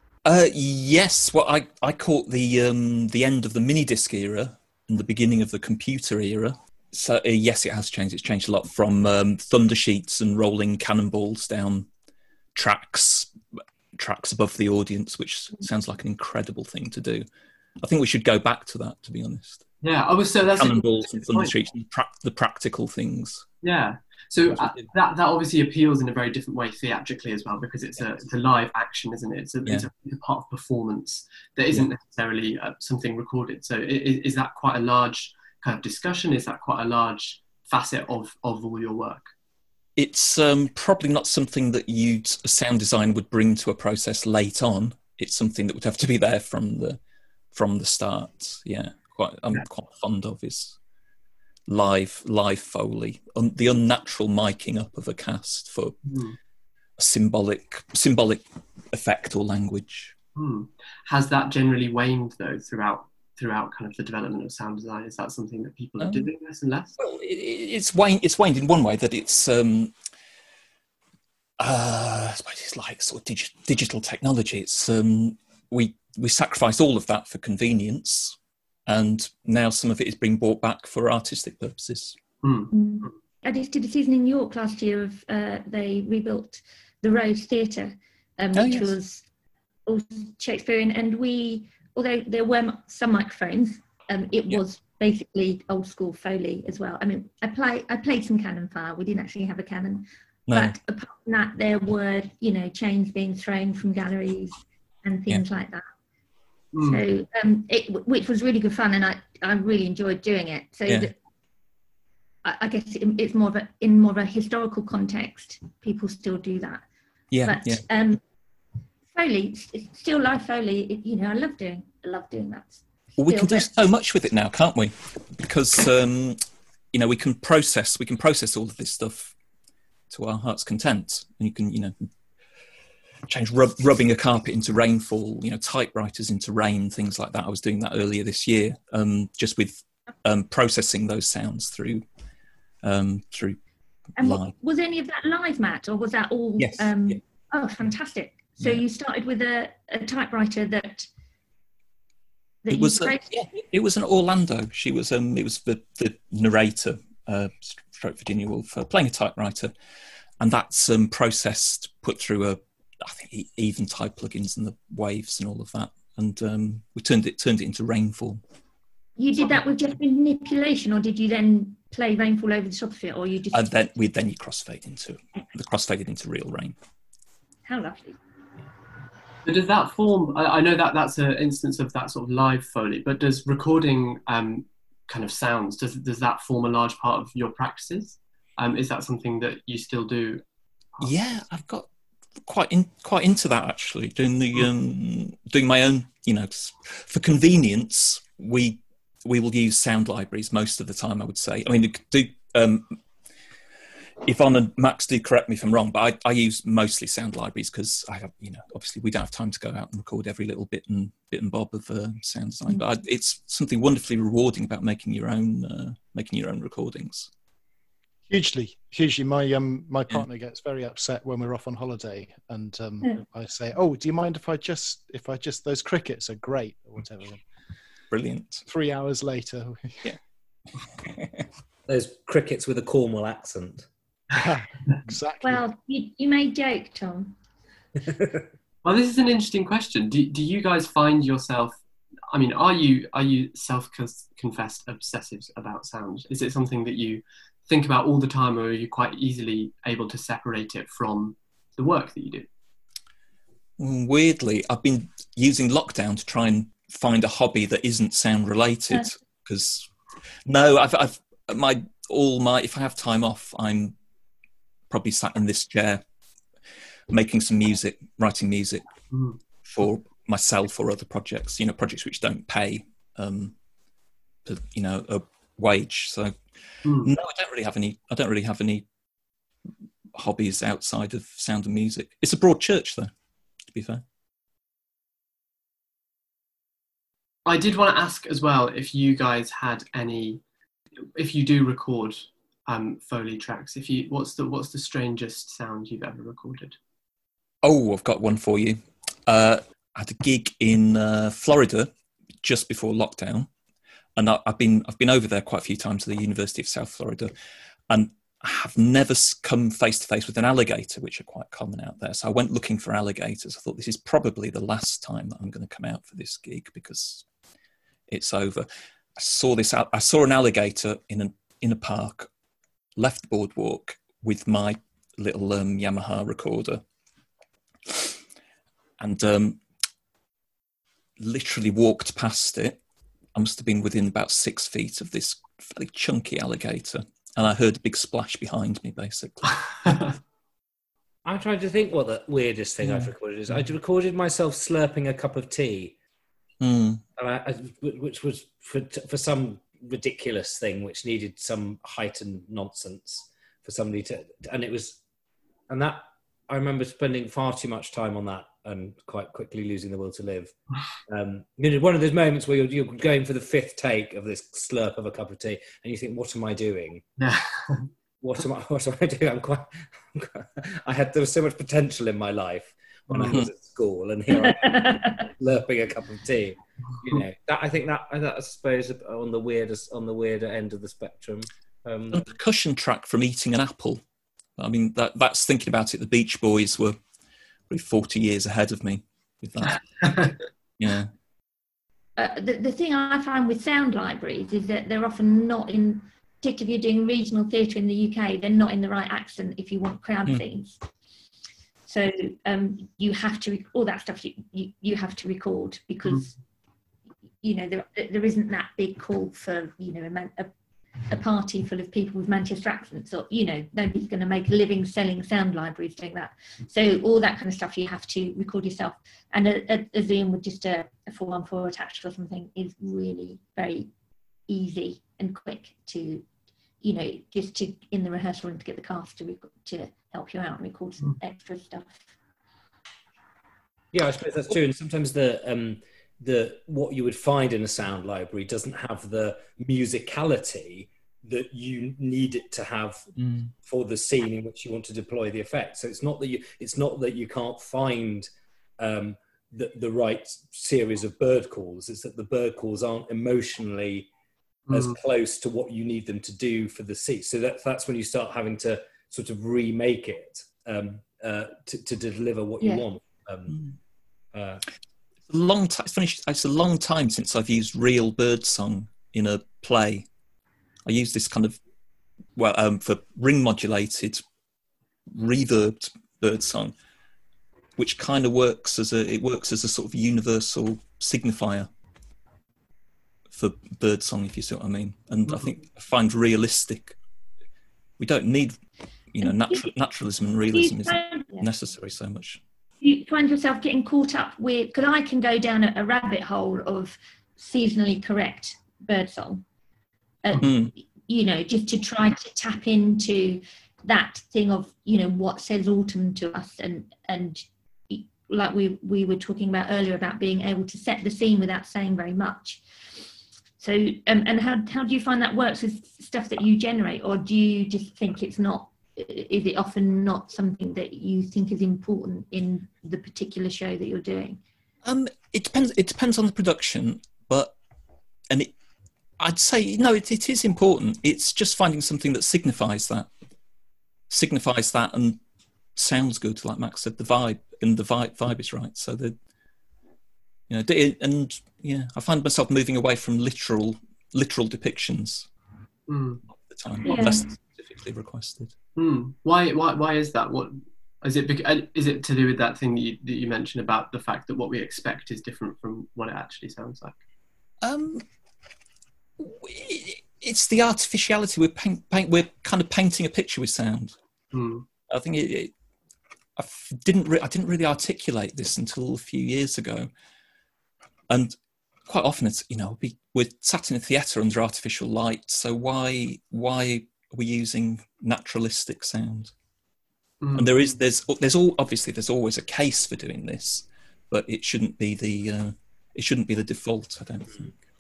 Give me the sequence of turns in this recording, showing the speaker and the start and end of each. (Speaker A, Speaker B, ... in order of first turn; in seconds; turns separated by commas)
Speaker A: 0.2-11.9, Speaker A: 12.6-13.3, Speaker A: 13.9-17.3, Speaker A: 17.8-19.6, Speaker B: 19.8-21.5, Speaker A: 20.6-23.5, Speaker B: 23.6-39.3, Speaker A: 24.6-24.9, Speaker A: 40.0-47.0, Speaker A: 47.5-50.8, Speaker A: 51.7-56.0, Speaker B: 56.1-56.4, Speaker A: 57.0-60.1, Speaker B: 60.4-67.0, Speaker A: 66.0-66.3, Speaker A: 67.0-69.9, Speaker A: 71.6-82.2, Speaker B: 82.4-82.7, Speaker C: 82.7-89.2, Speaker A: 88.5-88.9, Speaker C: 89.9-105.8, Speaker A: 100.5-100.8, Speaker B: 106.7-107.0, Speaker C: 106.8-111.2, Speaker C: 112.4-116.8, Speaker A: 117.3-117.8, Speaker C: 117.5-118.2, Speaker C: 119.1-123.7, Speaker A: 123.2-126.4, Speaker A: 126.9-129.3, Speaker A: 130.1-131.9, Speaker A: 133.3-142.1, Speaker A: 142.8-143.6, Speaker A: 144.2-144.5, Speaker C: 144.2-151.1, Speaker A: 146.6-147.2, Speaker C: 152.7-153.4, Speaker A: 152.7-159.7, Speaker A: 160.4-168.4, Speaker C: 169.2-173.7, Speaker A: 173.5-176.8, Speaker C: 177.7-178.2, Speaker B: 179.4-190.4, Speaker A: 191.0-191.9, Speaker A: 192.5-203.0, Speaker A: 204.3-217.3, Speaker D: 218.3-227.4, Speaker A: 228.1-228.6, Speaker D: 228.7-230.1, Speaker E: 231.9-233.9, Speaker D: 234.3-235.6, Speaker C: 235.4-237.4, Speaker B: 238.8-252.5, Speaker A: 253.8-259.9, Speaker A: 260.5-263.9, Speaker A: 264.9-266.0, Speaker A: 267.1-268.9, Speaker B: 269.1-269.4, Speaker A: 269.6-273.6, Speaker A: 274.4-278.9, Speaker B: 276.9-277.1, Speaker A: 280.1-283.1, Speaker A: 283.7-284.0, Speaker B: 287.5-290.4, Speaker B: 291.1-296.8, Speaker A: 297.6-301.9, Speaker A: 302.4-303.5, Speaker A: 304.2-307.3, Speaker A: 307.9-317.2, Speaker A: 318.1-322.3, Speaker A: 323.0-326.8, Speaker A: 327.9-328.1, Speaker A: 329.0-329.6, Speaker A: 331.2-332.8, Speaker A: 333.3-340.2, Speaker E: 341.3-345.9, Speaker A: 342.9-343.1, Speaker A: 346.6-347.0, Speaker E: 347.2-355.0, Speaker E: 355.7-360.5, Speaker E: 361.1-367.0, Speaker B: 367.2-367.9, Speaker E: 368.2-382.3, Speaker B: 373.1-373.4, Speaker C: 374.3-375.3, Speaker A: 382.1-384.0, Speaker A: 384.6-387.0, Speaker A: 387.7-391.1, Speaker C: 392.2-400.8, Speaker C: 401.9-406.4, Speaker C: 407.4-410.5, Speaker C: 411.1-423.9, Speaker C: 424.5-426.2, Speaker C: 426.8-432.0, Speaker E: 433.9-443.1, Speaker A: 443.2-443.5, Speaker E: 443.6-448.3, Speaker E: 448.8-454.1, Speaker B: 454.7-455.0, Speaker E: 454.7-463.6, Speaker E: 464.3-464.6, Speaker A: 465.3-470.1, Speaker A: 470.9-471.6, Speaker A: 472.4-474.2, Speaker A: 475.1-476.7, Speaker A: 477.8-481.7, Speaker A: 483.3-487.0, Speaker A: 488.0-488.6, Speaker A: 489.1-492.4, Speaker C: 489.2-489.7, Speaker C: 490.5-491.5, Speaker C: 492.8-499.4, Speaker C: 500.2-512.6, Speaker A: 500.4-500.7, Speaker C: 513.6-524.4, Speaker A: 524.8-527.6, Speaker A: 529.2-533.1, Speaker A: 534.1-535.2, Speaker A: 535.8-539.2, Speaker A: 540.5-545.3, Speaker B: 545.9-546.2, Speaker A: 546.3-548.5, Speaker C: 546.8-547.2, Speaker B: 548.8-557.0, Speaker A: 557.6-558.0, Speaker A: 559.2-564.0, Speaker B: 564.3-564.7, Speaker A: 564.9-565.5, Speaker A: 566.4-569.9, Speaker A: 571.1-571.4, Speaker A: 571.9-579.3, Speaker B: 580.2-580.6, Speaker A: 580.4-587.5